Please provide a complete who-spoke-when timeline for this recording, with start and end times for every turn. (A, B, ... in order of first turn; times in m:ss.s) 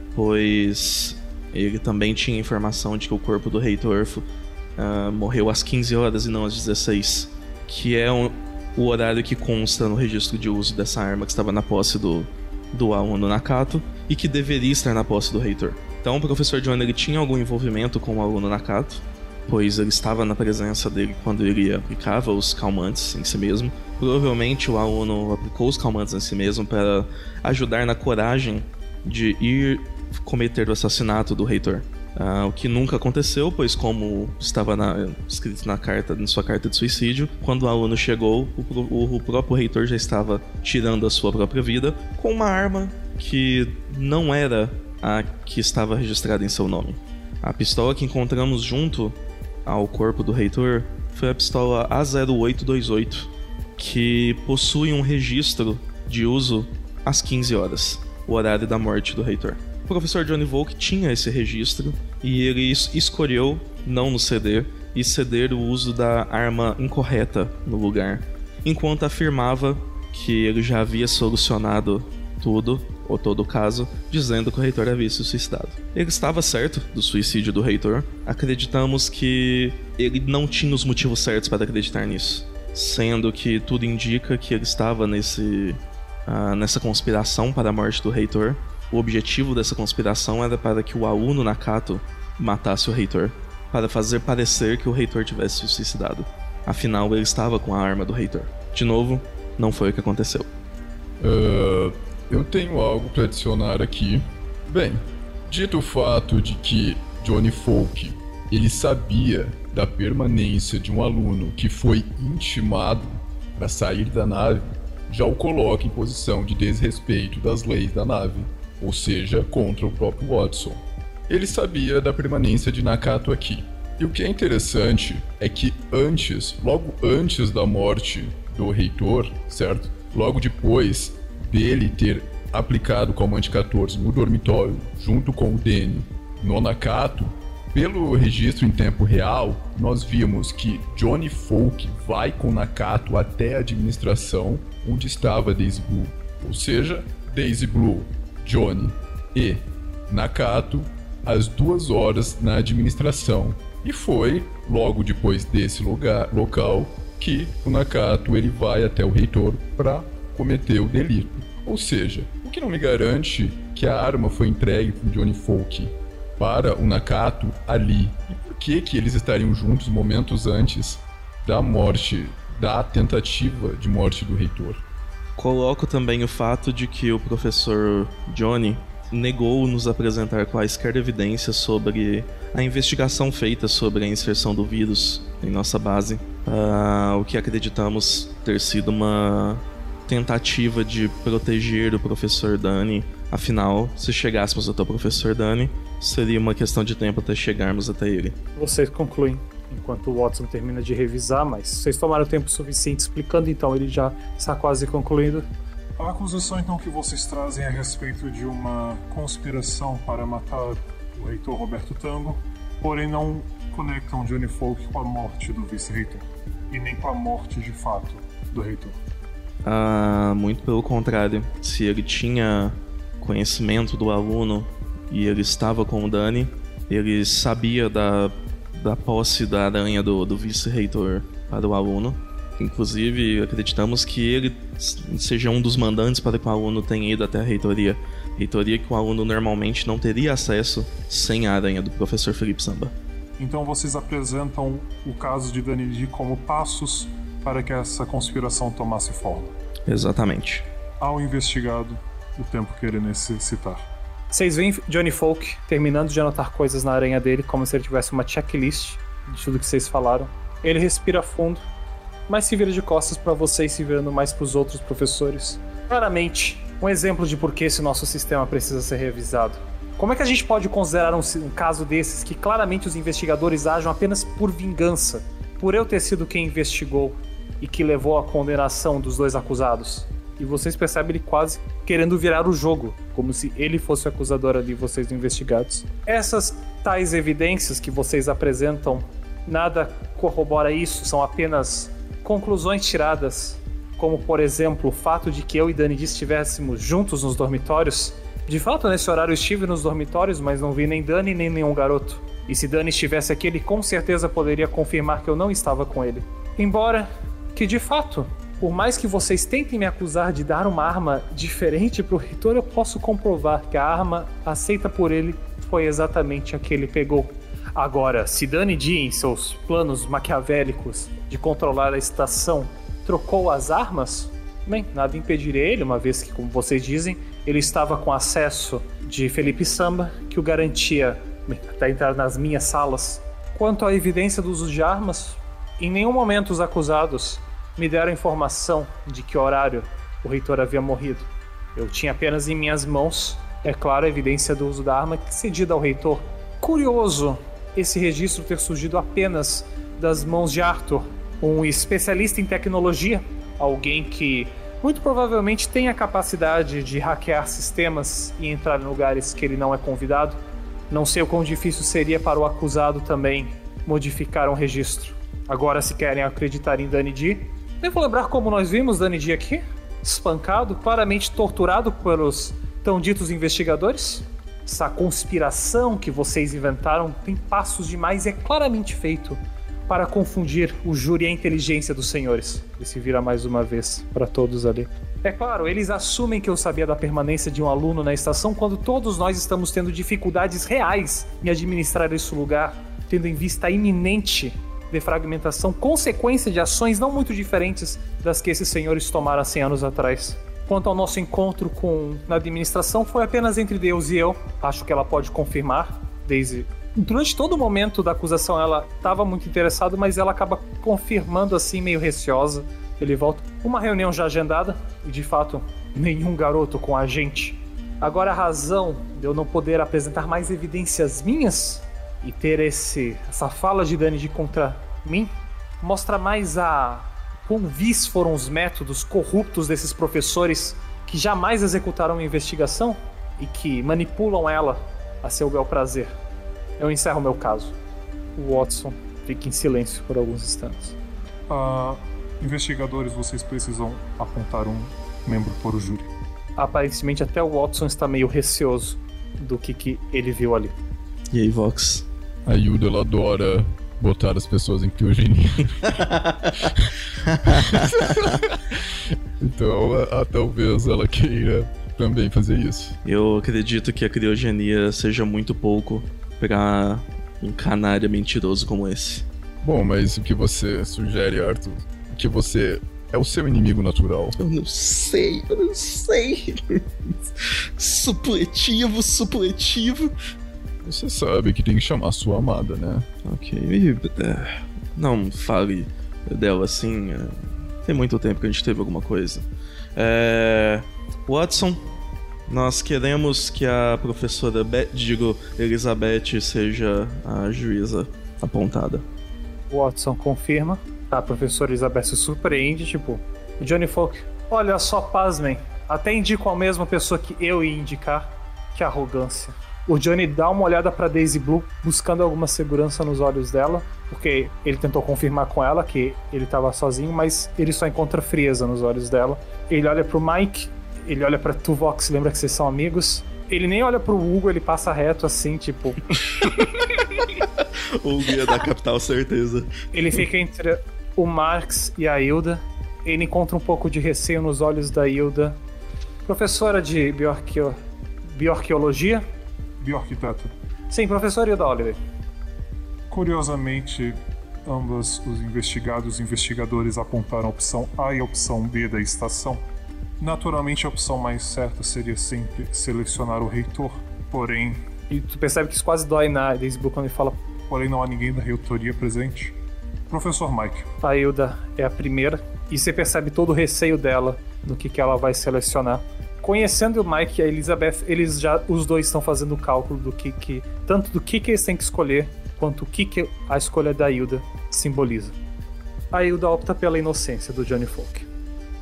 0:00.1-0:04.2 A
0:04.8-1:40.4 A
1:41.2-2:54.8 B
2:55.4-3:18.4 A
3:18.6-3:25.5 C
3:26.0-3:39.0 D
3:39.6-4:02.9 A
4:03.4-4:09.5 D
4:09.9-4:10.6 A
4:11.0-4:13.8 D
4:14.3-4:21.6 C
4:22.3-6:00.4 C
6:00.9-7:16.1 C
7:16.8-7:17.7 C
7:18.4-7:21.0 C
7:21.5-7:26.1 D
7:26.6-7:30.8 C
7:31.3-7:32.0 A
7:32.4-7:36.0 B
7:36.1-7:36.7 A
7:37.2-7:38.3 A
7:37.5-7:43.0 B
7:43.0-7:49.2 A
7:49.6-7:54.4 B
7:54.4-8:00.1 A
8:00.8-8:03.1 B
8:03.2-8:11.8 A
8:12.5-8:19.0 A
8:19.7-8:46.0 C
8:47.4-8:49.7 A
8:49.9-8:55.6 C
8:56.2-8:59.2 C
8:59.8-9:00.5 D
9:00.9-9:02.0 C
9:03.1-9:09.6 D
9:10.2-9:14.8 D
9:15.1-9:17.4 C
9:17.7-9:19.6 D
9:20.1-9:20.9 D
9:21.0-9:35.4 C
9:36.1-9:38.3 C